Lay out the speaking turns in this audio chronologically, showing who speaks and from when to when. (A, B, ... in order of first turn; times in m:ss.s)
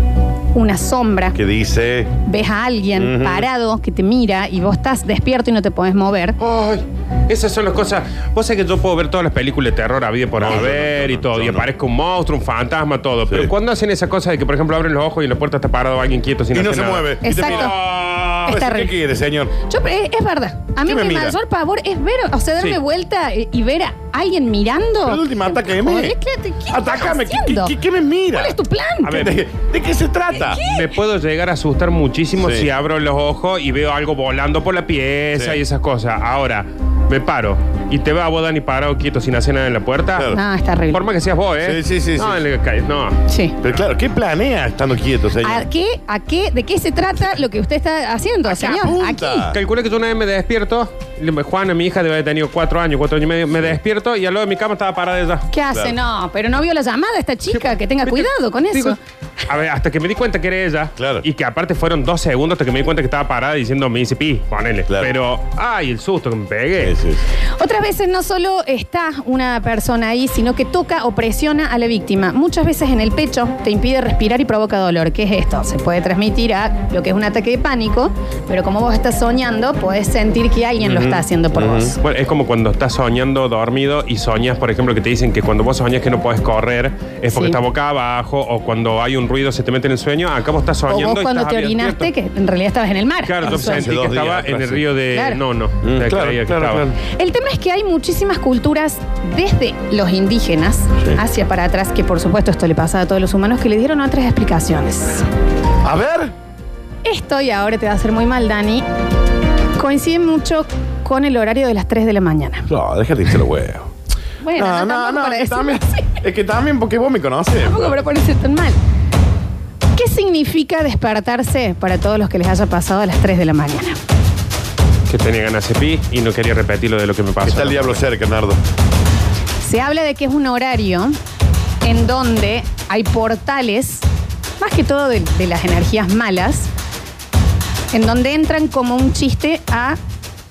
0:00.5-0:01.4 A
0:01.3-0:02.2 B
0:02.2-0:06.4 A
0:02.9-0:03.5 B
0:06.4-0:18.5 C
0:10.4-0:11.7 B
0:16.5-0:19.5 B
0:17.2-0:17.7 A
0:18.5-0:19.0 A
0:19.6-0:27.7 A
0:20.8-0:21.4 B
0:25.0-0:26.1 B
0:26.7-0:30.6 B
0:28.3-0:29.3 A
0:29.0-0:29.4 C
0:30.3-0:30.9 A
0:30.6-0:40.3 C
0:32.4-0:32.7 B
0:35.4-0:35.6 B
0:40.1-0:40.4 B
0:40.3-0:41.0 A
0:40.9-0:43.2 C
0:41.6-0:42.4 B
0:43.3-0:43.5 A
0:43.6-0:45.6 B
0:45.4-0:49.4 A
0:48.4-0:49.6 B
0:49.5-0:55.4 C
0:55.5-0:59.0 A
0:55.7-0:56.0 B
0:57.5-0:59.0 C
0:59.5-1:06.9 C
1:01.0-1:01.2 B
1:06.8-1:07.2 B
1:07.6-1:22.0 A
1:20.8-1:21.9 B
1:22.0-1:32.1 C
1:27.3-1:27.6 A
1:30.9-1:33.9 A
1:33.2-1:36.9 C
1:33.4-1:34.8 B
1:35.1-1:35.4 A
1:35.8-1:37.0 B
1:37.1-1:45.3 A
1:45.8-1:46.3 B
1:47.0-1:48.8 A
1:49.8-1:52.7 A
1:52.7-1:53.9 B
1:54.4-1:56.2 A
1:54.5-1:58.0 B
1:57.6-1:58.8 A
1:59.9-2:04.0 A
2:05.1-2:08.0 C
2:07.4-2:08.6 B
2:09.6-2:11.2 A
2:11.8-2:14.0 A
2:14.6-2:16.7 A
2:17.9-2:20.0 A